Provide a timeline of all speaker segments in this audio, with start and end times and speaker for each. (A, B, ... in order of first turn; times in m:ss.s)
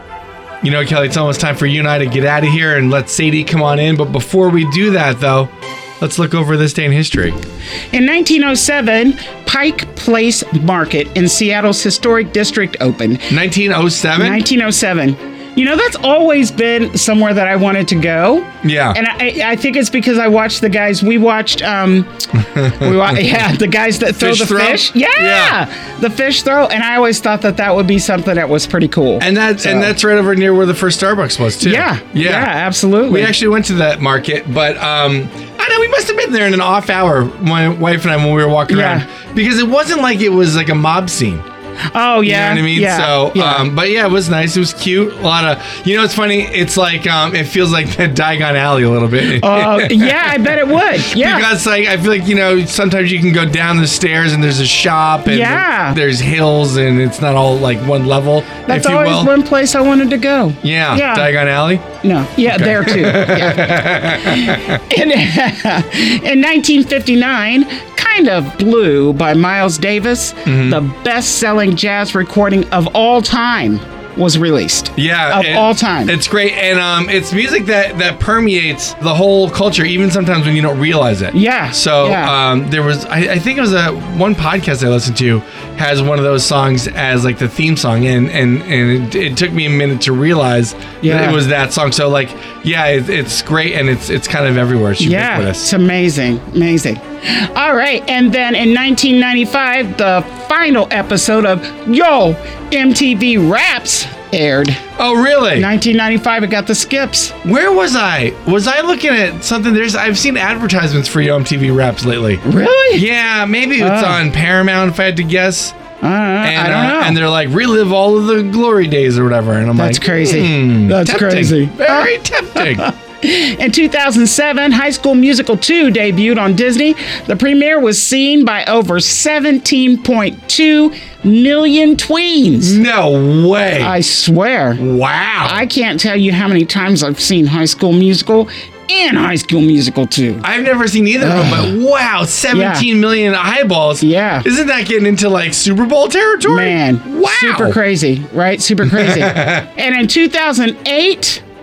0:00.6-0:07.4 A
0:07.9-0:13.4 B
0:13.3-0:14.4 A
0:14.2-0:22.2 B
0:18.6-0:19.0 A
0:22.4-0:23.2 A
0:22.8-0:29.9 B
0:24.2-0:25.6 A
0:29.2-0:32.5 A
0:31.6-0:33.4 B
0:33.1-0:41.4 A
0:38.7-0:39.1 B
0:41.9-0:43.7 B
0:42.2-0:59.3 A
0:49.3-0:51.5 B
0:55.3-0:56.0 B
0:58.7-1:01.3 B
1:00.6-1:01.9 A
1:02.0-1:16.2 B
1:02.5-1:04.8 A
1:10.4-1:10.8 A
1:15.0-1:35.7 A
1:21.3-1:22.4 B
1:31.0-1:31.4 B
1:35.0-1:44.8 B
1:45.0-1:45.7 A
1:45.6-1:47.3 B
1:47.4-1:55.8 A
1:52.4-1:53.0 B
1:53.8-1:54.2 B
1:56.0-1:57.2 B
1:56.4-2:02.9 A
1:59.8-2:12.8 B
2:12.6-2:14.0 A
2:13.8-2:14.8 B
2:14.8-2:15.6 A
2:15.4-2:20.4 B
2:20.4-2:27.8 A
2:21.2-2:21.7 B
2:22.5-2:22.9 B
2:24.0-2:24.5 B
2:26.4-2:31.4 B
2:28.8-2:29.7 A